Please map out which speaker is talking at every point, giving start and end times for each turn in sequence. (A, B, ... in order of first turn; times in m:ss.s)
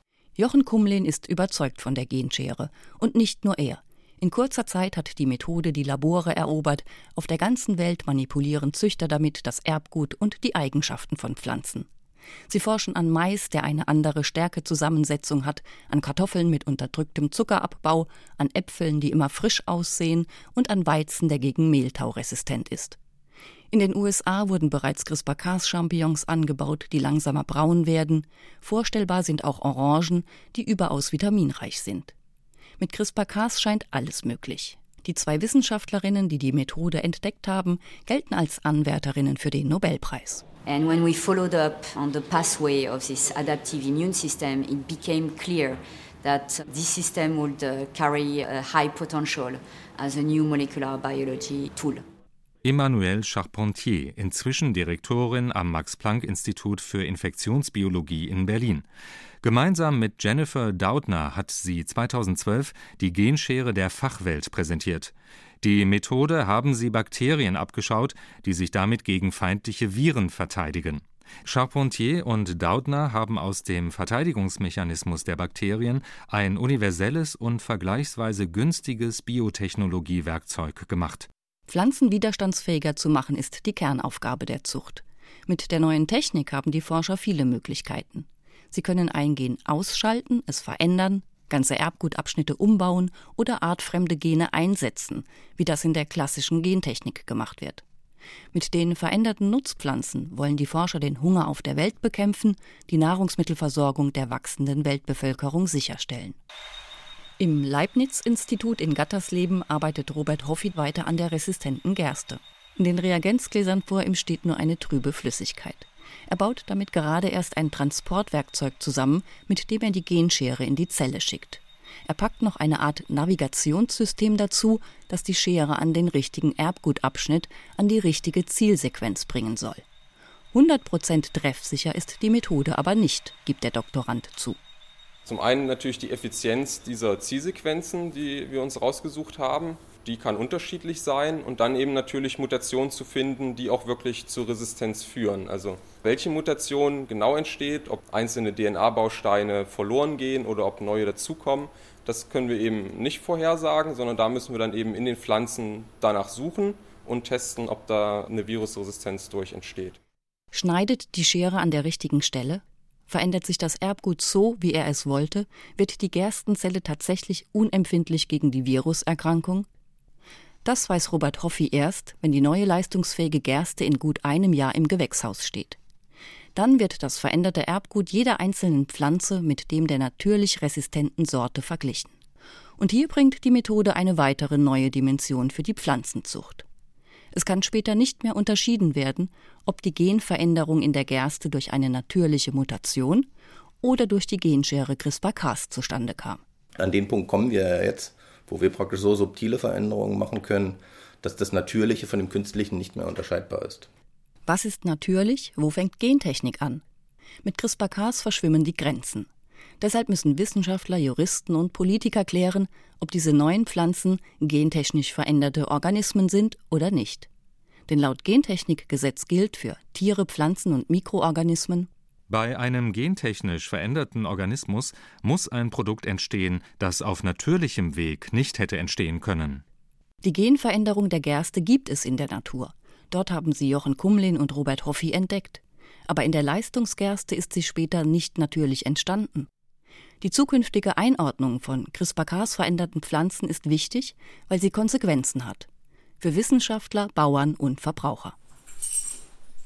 0:00.4-0:11.9 A
0:12.5-0:23.0 A
0:23.7-0:32.1 A
0:32.8-0:40.4 A
0:40.6-0:52.0 B
0:52.6-0:58.8 C
0:59.4-1:21.3 C
1:21.7-1:37.8 A
1:38.5-1:46.4 A
1:47.4-2:09.8 A
2:10.5-2:14.6 A
2:15.2-2:40.0 D
2:40.5-2:49.7 A
2:50.6-2:55.8 A
2:56.5-3:02.1 A
3:02.8-3:06.6 A
3:07.3-3:13.3 A
3:13.8-3:16.4 A
3:16.8-3:23.9 E
3:24.4-3:26.8 A
3:27.4-3:29.3 A
3:29.8-3:37.3 A
3:37.9-3:41.9 A
3:42.3-3:49.6 C
3:50.2-3:59.5 A
4:00.2-4:05.7 A
4:06.2-4:08.3 A